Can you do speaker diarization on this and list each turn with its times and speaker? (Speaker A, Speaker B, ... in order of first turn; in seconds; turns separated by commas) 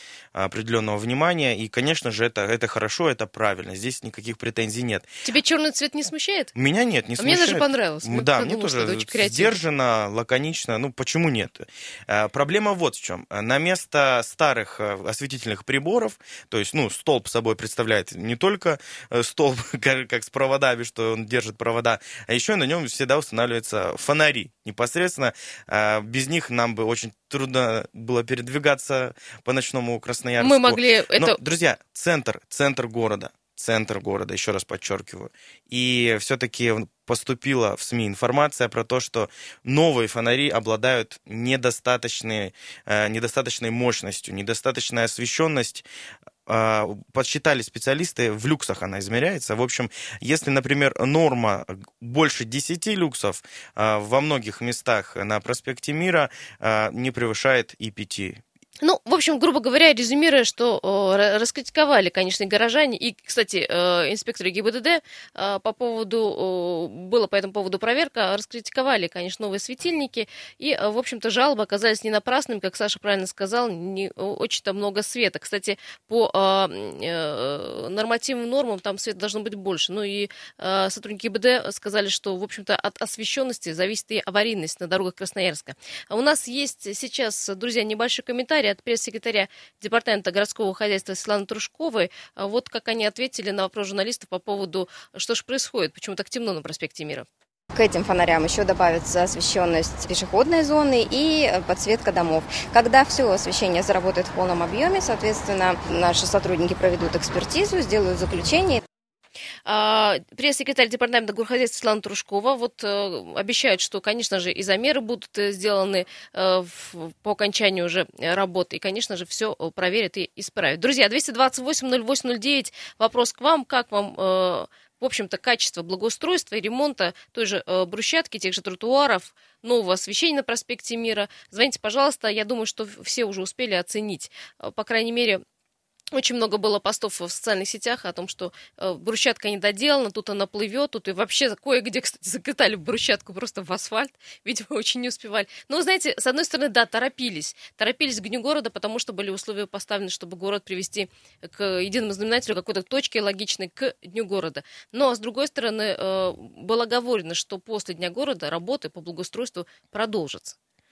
Speaker A: 0.3-5.1, Speaker B: 5.2-6.5, Speaker A: 6.5-45.9, Speaker B: 7.2-9.6, Speaker B: 30.4-31.4, Speaker A: 46.5-58.4, Speaker B: 58.8-97.3, Speaker C: 97.7-108.8, Speaker B: 109.7-135.4, Speaker B: 136.1-160.6